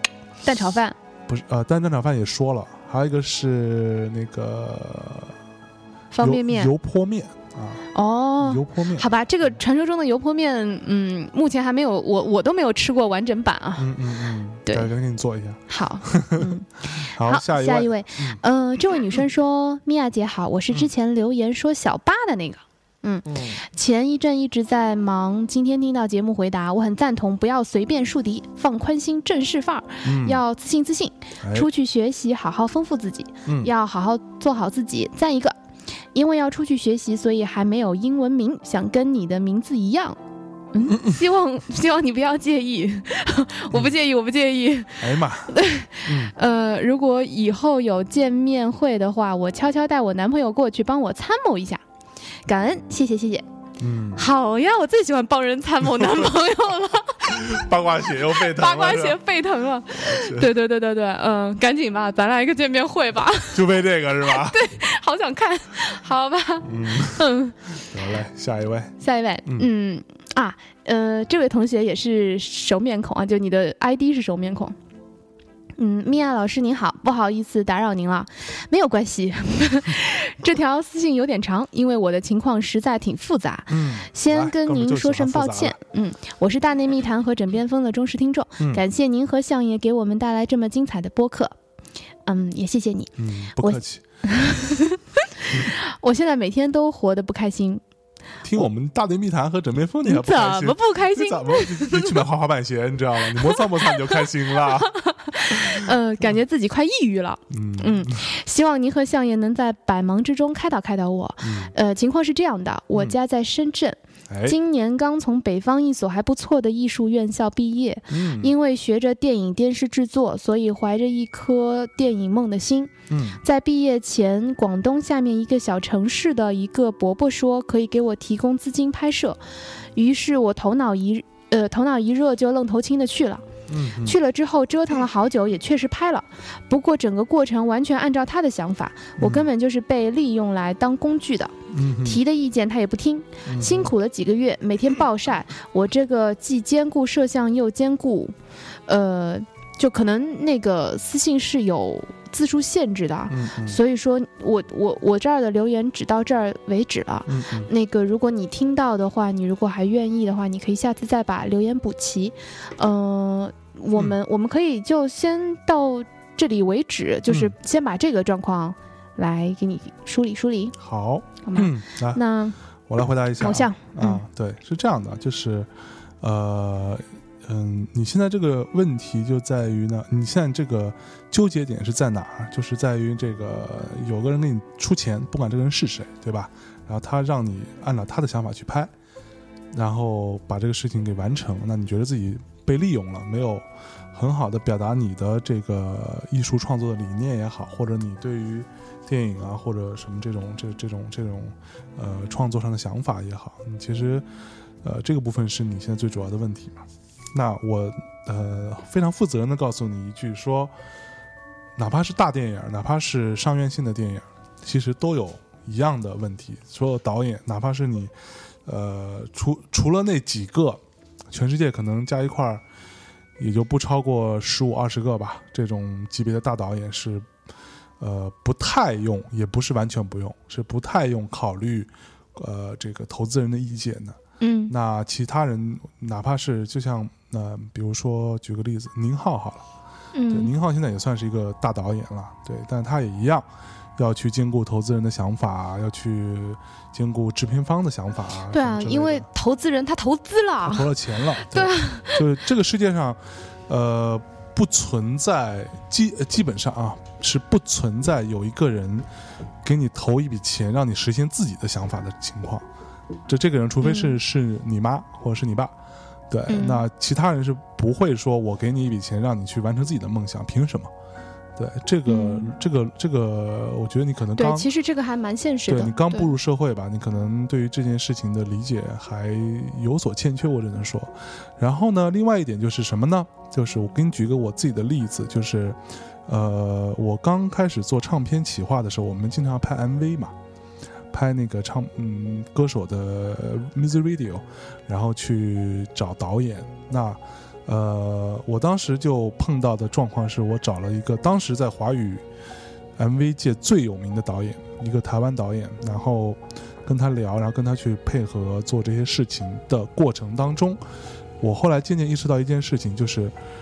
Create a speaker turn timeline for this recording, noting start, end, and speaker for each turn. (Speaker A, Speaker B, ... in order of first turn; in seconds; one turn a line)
Speaker A: 0.4-0.9
Speaker B: 1.3-5.3
Speaker A: 6.1-6.7
Speaker B: 6.2-7.9
Speaker A: 7.9-14.1
Speaker B: 8.4-9.1
Speaker B: 13.8-18.4
Speaker A: 14.6-14.9
Speaker A: 15.7-35.5
Speaker B: 23.3-23.6
Speaker B: 30.0-30.4
Speaker B: 31.4-31.7
Speaker A: 36.1-40.2
Speaker A: 40.7-51.8
Speaker B: 40.9-41.2
Speaker B: 45.0-45.5
Speaker B: 46.0-46.3
Speaker A: 52.5-53.4
Speaker B: 53.8-54.2
Speaker A: 54.1-57.6
Speaker B: 57.3-59.2
Speaker A: 58.2-67.7
Speaker B: 59.9-60.5
Speaker B: 63.5-64.6
Speaker B: 66.6-67.3
Speaker B: 67.9-69.7
Speaker A: 69.0-74.8
Speaker A: 75.8-91.5
Speaker B: 83.7-85.8
Speaker A: 92.2-97.8
Speaker B: 93.2-94.0
Speaker B: 98.4-105.9
Speaker A: 100.0-102.2
Speaker A: 103.4-129.4
Speaker B: 107.5-108.2
Speaker B: 111.4-111.7
Speaker B: 114.3-114.6
Speaker B: 118.1-118.5
Speaker B: 123.1-123.4
Speaker A: 129.9-133.4
Speaker B: 133.7-134.2
Speaker A: 134.0-148.3
Speaker B: 139.2-139.5
Speaker B: 141.7-142.2
Speaker B: 143.5-143.9
Speaker A: 148.9-170.8
Speaker B: 153.3-153.8
Speaker B: 157.3-157.7
Speaker B: 170.8-172.2
Speaker A: 171.4-172.6
Speaker B: 172.9-175.7
Speaker A: 173.4-174.2
Speaker B: 176.2-188.9
Speaker B: 189.7-204.2
Speaker B: 204.8-210.7
Speaker B: 211.8-218.1
Speaker B: 218.6-222.6
Speaker B: 223.4-227.3
Speaker B: 228.0-234.2
Speaker A: 234.4-234.7
Speaker B: 234.7-239.6
Speaker A: 240.1-240.5
Speaker B: 240.3-249.3
Speaker A: 248.5-252.3
Speaker B: 250.6-259.1
Speaker B: 259.6-262.6
Speaker B: 263.3-265.7
Speaker A: 263.8-264.2
Speaker B: 266.3-270.9
Speaker A: 266.5-266.8
Speaker B: 271.6-274.7
Speaker A: 272.1-272.5
Speaker A: 274.4-276.3
Speaker B: 275.7-290.3
Speaker B: 291.1-302.2
Speaker B: 303.0-310.8
Speaker B: 311.4-313.3